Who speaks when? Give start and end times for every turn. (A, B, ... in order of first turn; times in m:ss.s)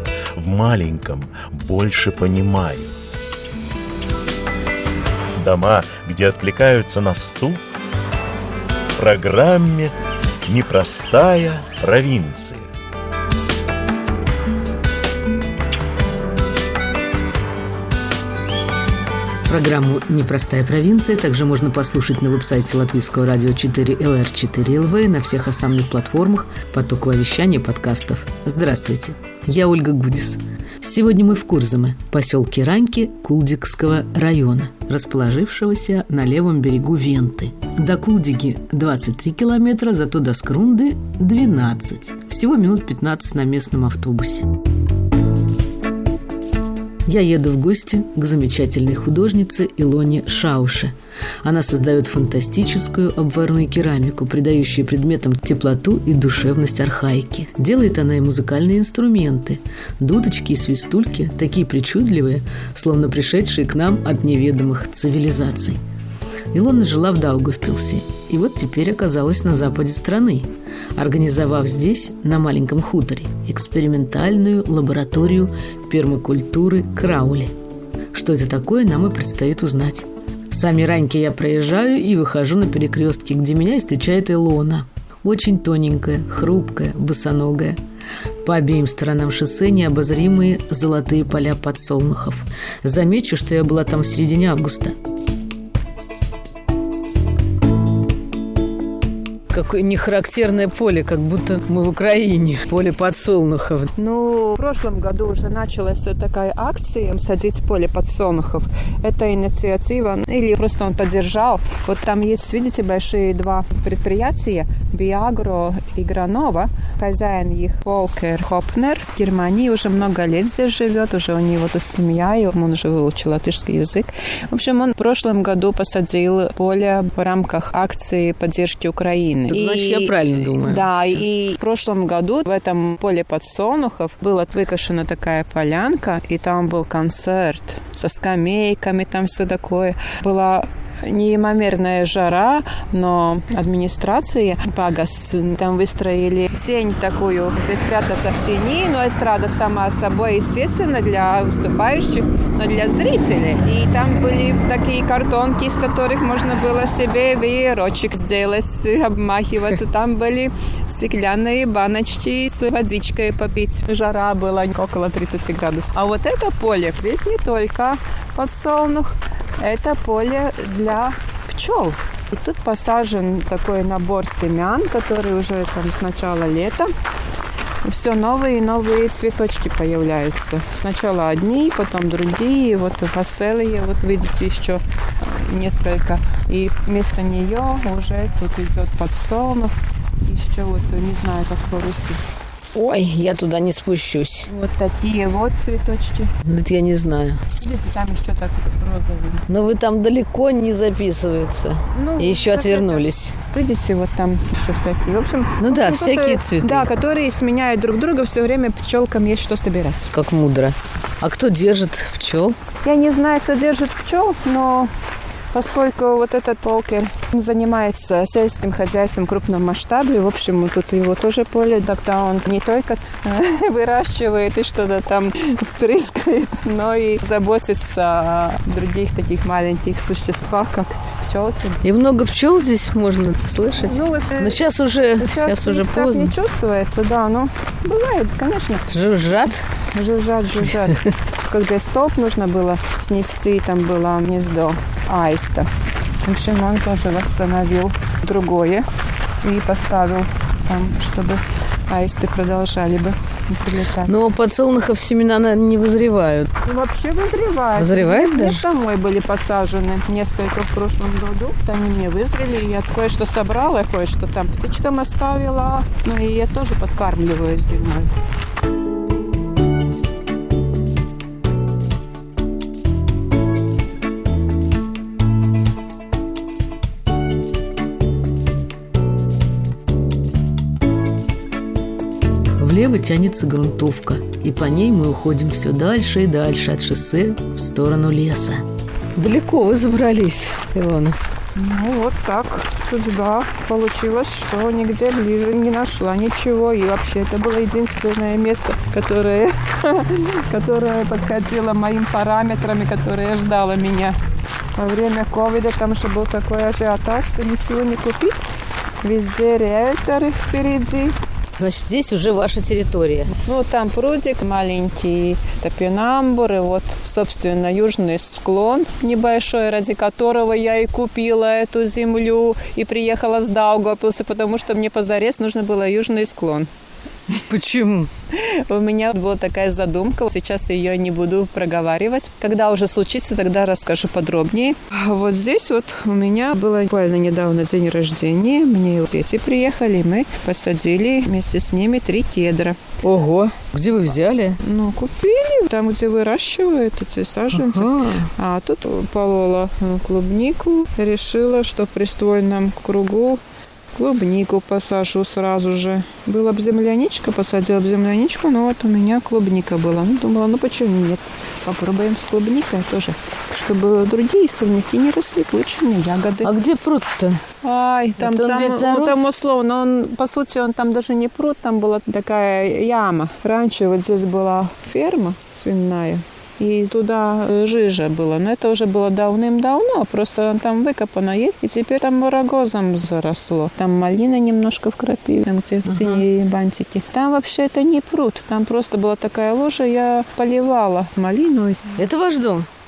0:00.4-0:02.9 A
0:05.4-0:07.6 A
0:09.0-0:09.9 A
0:10.4-0:12.7 A
0:19.5-0:44.6 B
0:47.0-1:05.8 B
1:06.5-1:17.5 B
1:18.1-1:27.8 B
1:28.4-1:35.0 B
1:39.5-1:43.9 B
1:44.0-2:56.9 C
2:09.5-2:11.0 B
2:57.8-3:12.2 C
3:12.7-3:14.5 B
3:14.5-3:16.3 C
3:16.4-3:17.4 B
3:17.6-3:19.5 C
3:19.5-3:23.4 B
3:21.9-3:30.1 C
3:25.6-3:26.9 B
3:30.1-3:32.6 B
3:32.8-3:34.9 C
3:35.5-3:51.8 C
3:51.8-3:56.4 B
3:53.8-3:54.6 C
3:55.2-3:58.9 C
3:58.9-3:59.6 B
3:59.9-4:05.7 C
4:06.2-4:08.9 C
4:09.4-4:14.1 C
4:14.0-4:16.5 B
4:16.6-4:28.1 C
4:17.8-4:18.6 B
4:42.6-4:48.6 B
4:49.2-4:51.2 B
4:51.6-5:04.2 C
5:04.8-5:08.4 C
5:09.0-5:11.2 C
5:11.6-5:13.3 B
5:13.3-5:26.7 C
5:27.3-5:28.1 B
5:28.3-5:42.8 C
5:43.0-5:44.6 B
5:44.6-5:53.4 C
5:47.5-5:48.3 B
5:54.0-6:06.5 C
6:06.4-6:07.4 B
6:07.6-6:32.0 C
6:08.2-6:09.3 B
6:25.8-6:26.2 B
6:32.0-6:32.7 B